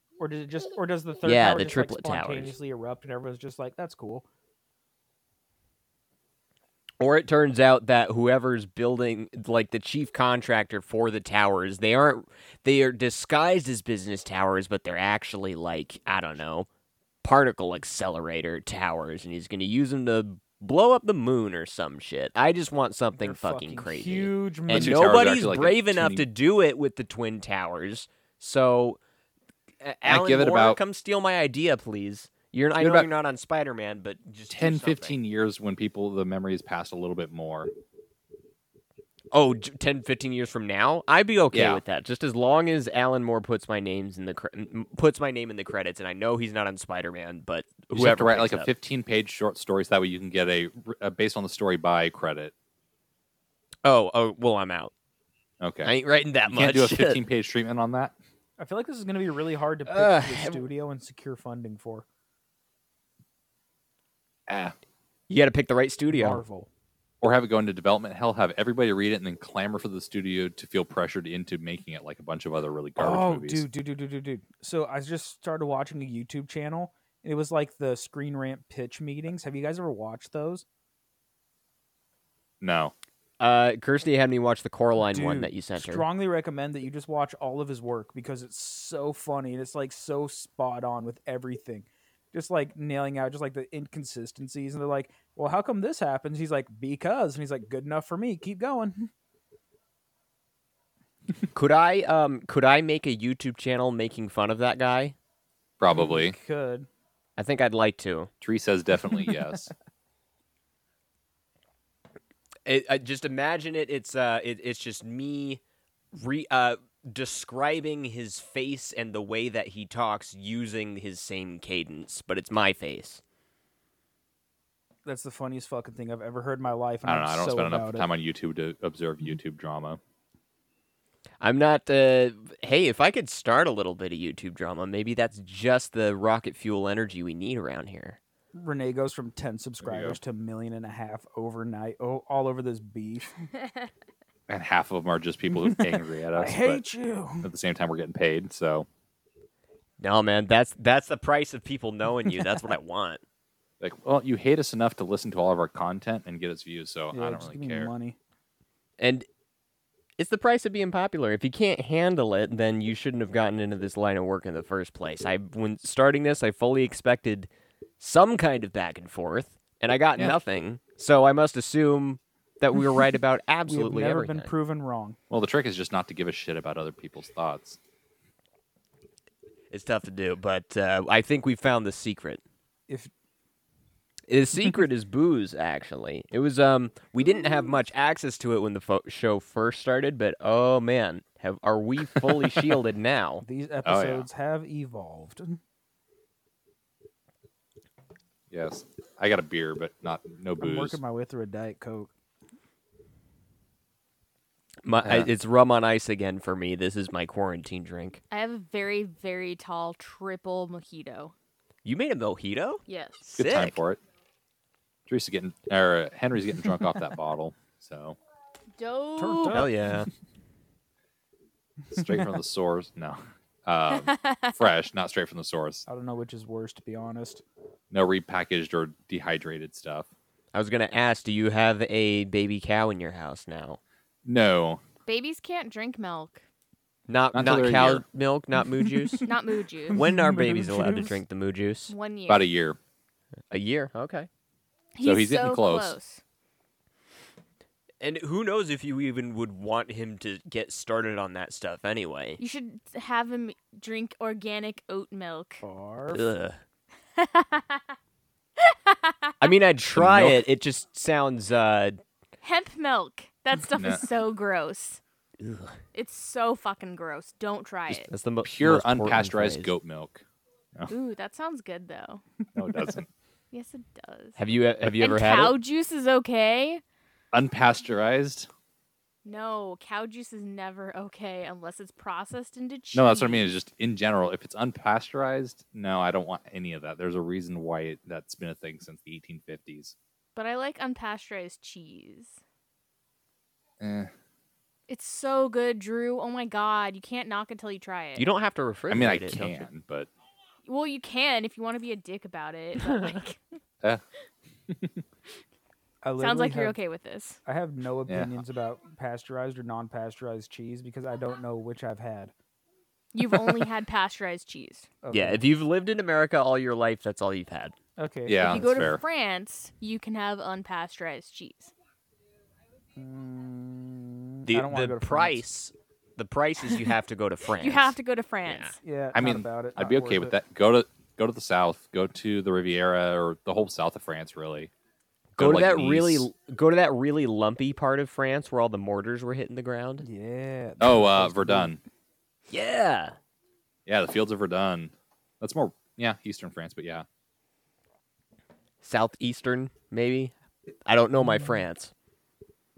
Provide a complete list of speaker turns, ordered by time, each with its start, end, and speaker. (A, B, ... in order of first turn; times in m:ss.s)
0:00.2-0:04.2 A
0:01.2-0:02.6 B
0:07.0-0:16.7 B
0:17.2-0:29.0 B
0:23.1-0:25.0 A
0:24.7-0:26.2 C
0:29.8-0:35.1 B
0:30.0-0:30.8 C
0:32.8-0:33.1 C
0:34.5-0:37.7 C
0:39.3-0:48.7 B
0:41.5-0:41.8 C
0:47.9-0:52.5 C
0:53.8-0:54.9 B
0:55.6-0:55.9 C
0:55.8-0:57.2 B
0:56.4-0:58.1 C
0:58.6-1:02.0 A
0:59.9-1:00.6 B
1:04.5-1:04.8 C
1:05.3-1:06.4 B
1:06.1-1:06.7 A
1:07.2-1:13.7 C
1:13.0-1:20.6 A
1:22.6-1:22.9 C
1:23.4-1:26.0 B
1:25.1-1:39.1 A
1:41.5-1:45.1 B
1:45.8-1:46.4 C
1:45.9-1:46.9 A
1:47.4-1:48.3 B
1:48.4-1:49.7 C
1:52.6-1:55.6 B
1:56.1-2:03.2 B
2:05.0-2:08.1 A
2:07.0-2:10.0 C
2:11.4-2:18.2 B
2:18.6-2:23.4 A
2:19.8-2:20.2 C
2:24.5-2:26.8 C
2:25.5-2:27.5 A
2:27.4-2:28.9 C
2:30.0-2:33.2 B
2:33.8-2:37.9 C
2:37.1-2:38.2 A
2:39.0-2:39.3 B
2:40.2-2:47.5 B
2:48.0-2:54.5 B
2:53.7-2:55.2 A
2:55.3-2:57.8 C
2:59.7-3:02.4 B
3:04.3-3:13.4 B
3:13.4-3:15.6 A
3:13.8-3:14.3 C
3:18.5-3:21.0 C
3:20.6-3:22.1 A
3:24.8-3:28.2 B
3:28.3-3:31.3 D
3:31.8-3:32.8 B
3:32.9-3:33.4 D
3:33.4-3:33.8 B
3:33.4-3:34.0 C
3:35.1-3:38.2 C
3:38.8-3:39.7 D
3:39.2-3:39.7 A
3:39.5-3:40.1 B
3:41.9-3:45.8 C
3:42.0-3:42.3 A
3:43.9-3:44.7 D
3:45.9-3:47.4 A
3:47.9-3:50.1 C
3:50.5-3:53.8 B
3:54.2-3:54.8 C
3:55.0-3:56.4 D
3:57.1-3:59.3 B
3:57.3-3:58.0 C
3:58.8-3:59.3 A
3:59.2-4:00.0 D
3:59.9-4:01.2 A
3:59.9-4:01.9 B
4:01.9-4:02.5 D
4:02.3-4:02.8 C
4:03.5-4:04.3 B
4:04.9-4:06.2 D
4:05.0-4:06.0 C
4:08.0-4:12.4 B
4:12.4-4:15.6 D
4:15.6-4:16.3 A
4:16.1-4:16.6 B
4:17.2-4:17.8 D
4:18.6-4:19.5 D
4:19.4-4:22.0 B
4:19.9-4:20.4 C
4:22.4-4:25.0 D
4:23.8-4:24.0 C
4:25.4-4:25.8 B
4:25.9-4:28.1 D
4:27.9-4:30.2 C
4:28.1-4:29.7 B
4:30.9-4:32.2 D
4:32.5-4:33.1 C
4:33.5-4:34.4 D
4:34.4-4:35.6 B
4:35.0-4:36.8 D
4:37.3-4:38.5 C
4:39.2-4:43.5 D
4:42.9-4:49.9 C
4:50.4-4:52.4 D
4:53.8-4:54.1 C
4:54.9-4:58.2 D
4:58.2-4:59.6 B
4:58.9-5:00.1 C
5:00.6-5:03.4 D
5:04.7-5:05.0 C
5:06.0-5:06.8 A
5:06.2-5:07.4 D
5:07.4-5:12.3 A
5:08.1-5:08.4 C
5:13.1-5:14.9 D
5:15.0-5:15.4 A
5:15.1-5:17.8 B
5:18.0-5:19.0 A
5:18.2-5:19.0 C
5:18.4-5:21.7 D
5:23.0-5:25.4 A
5:24.4-5:28.8 B
5:27.6-5:28.8 D
5:28.8-5:30.3 A
5:29.1-5:34.7 C
5:35.4-5:36.3 C
5:35.4-5:40.0 B
5:40.0-5:41.7 A
5:40.8-5:41.8 C
5:42.5-5:43.2 B
5:43.9-5:47.0 C
5:48.8-5:50.3 B
5:50.9-5:51.9 B
5:51.2-5:51.6 A